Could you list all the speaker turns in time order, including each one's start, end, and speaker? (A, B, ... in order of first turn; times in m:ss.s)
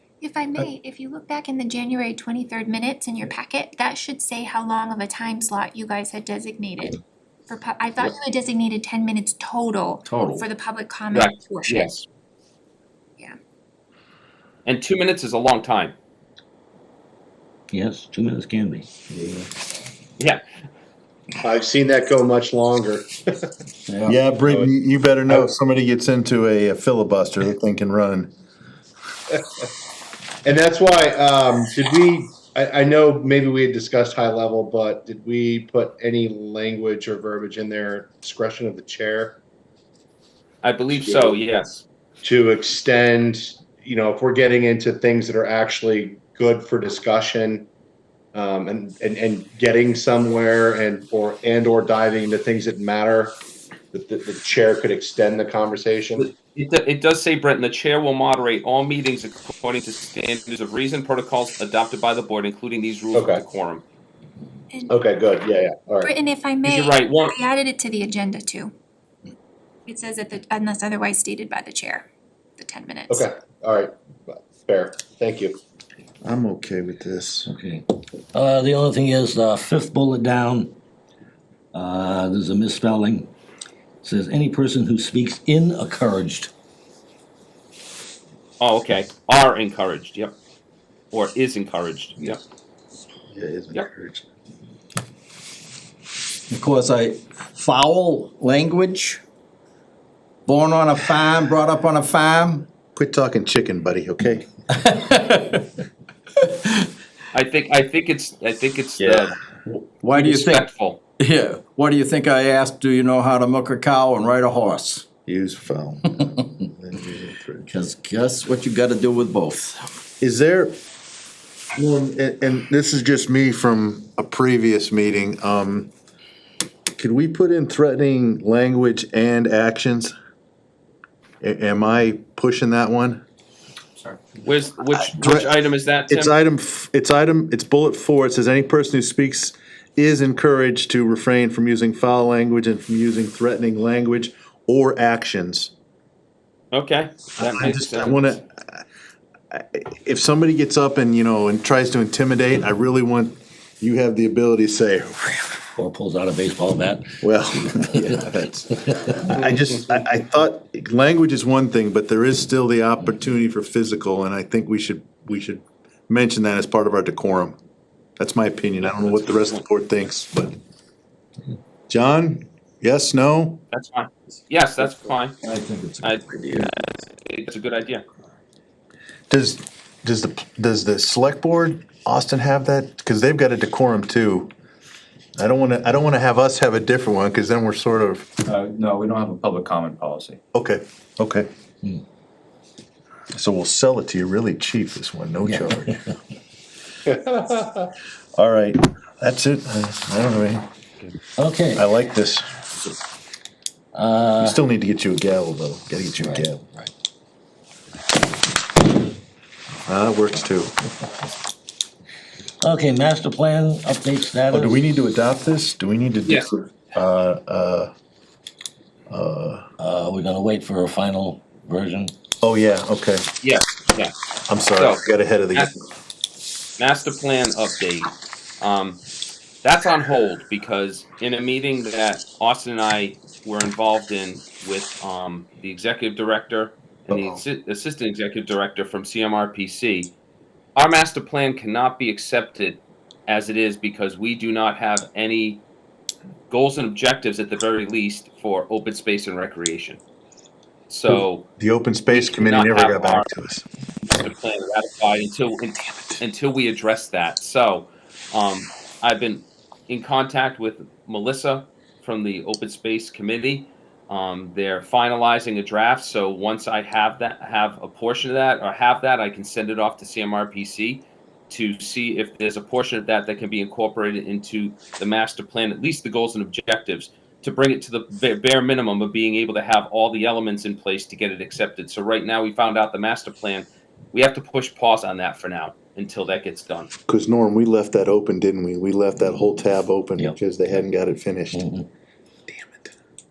0:00.2-0:11.9 A
0:10.0-0:10.4 B
0:11.1-0:12.0 C
0:14.6-0:15.9 C
0:17.7-0:18.9 D
0:21.4-0:23.1 E
0:23.9-0:24.2 B
0:24.0-0:28.3 F
0:24.4-0:24.7 E
0:30.4-0:39.4 E
0:40.6-0:41.8 C
0:41.0-0:41.4 E
0:42.2-0:47.7 E
0:48.3-0:53.4 E
0:53.9-0:56.3 E
0:56.2-1:03.8 C
1:03.1-1:03.4 E
1:04.7-1:05.0 A
1:04.9-1:06.1 E
1:06.0-1:08.7 A
1:06.6-1:07.3 C
1:09.8-1:12.1 A
1:12.6-1:13.2 A
1:13.1-1:15.6 E
1:16.2-1:17.5 F
1:17.4-1:20.7 D
1:21.7-1:23.3 D
1:24.0-1:26.5 D
1:28.6-1:30.3 C
1:31.1-1:32.4 C
1:33.3-1:34.2 F
1:36.5-1:39.2 B
1:40.4-1:42.7 B
1:42.9-1:44.5 F
1:44.7-1:45.6 B
1:47.3-1:49.3 C
1:49.0-1:49.3 F
1:49.7-1:50.7 B
1:50.1-1:51.0 C
1:51.2-1:55.0 B
1:55.2-1:57.7 F
1:57.6-1:59.9 B
2:00.2-2:00.8 F
2:01.8-2:05.9 F
2:07.0-2:10.1 F
2:11.4-2:13.2 F
2:14.4-2:16.3 C
2:15.2-2:15.5 F
2:16.1-2:25.7 F
2:26.7-2:28.4 C
2:27.4-2:28.8 F
2:29.5-2:35.6 F
2:35.8-2:39.2 D
2:37.2-2:47.6 F
2:48.2-2:50.5 F
2:48.8-2:49.6 C
2:51.9-2:53.6 F
2:53.7-2:55.4 C
2:55.4-2:56.7 B
2:56.0-2:58.0 C
2:59.3-3:04.5 F
3:05.4-3:08.3 F
3:08.5-3:10.4 G
3:10.5-3:11.5 F
3:13.3-3:16.0 F
3:15.4-3:15.8 D
3:17.1-3:17.9 E
3:18.4-3:20.7 F
3:21.4-3:21.8 D
3:21.7-3:22.5 F
3:23.9-3:24.6 D
3:24.4-3:26.7 F
3:26.2-3:26.5 D
3:29.9-3:30.7 F
3:32.6-3:34.8 D
3:34.5-3:37.9 F
3:39.1-3:39.6 F
3:39.8-3:42.1 D
3:42.4-3:43.3 F
3:43.4-3:44.1 C
3:44.5-3:45.7 F
3:44.7-3:45.7 C
3:46.8-3:49.0 C
3:49.6-4:00.1 C
3:57.1-3:57.4 F
4:00.8-4:05.6 C
4:06.5-4:10.0 C
4:10.9-4:11.4 C
4:11.6-4:13.6 F
4:12.1-4:13.3 C
4:14.1-4:46.9 C
4:47.1-4:51.7 F
4:51.5-4:51.8 D
4:52.5-4:52.8 F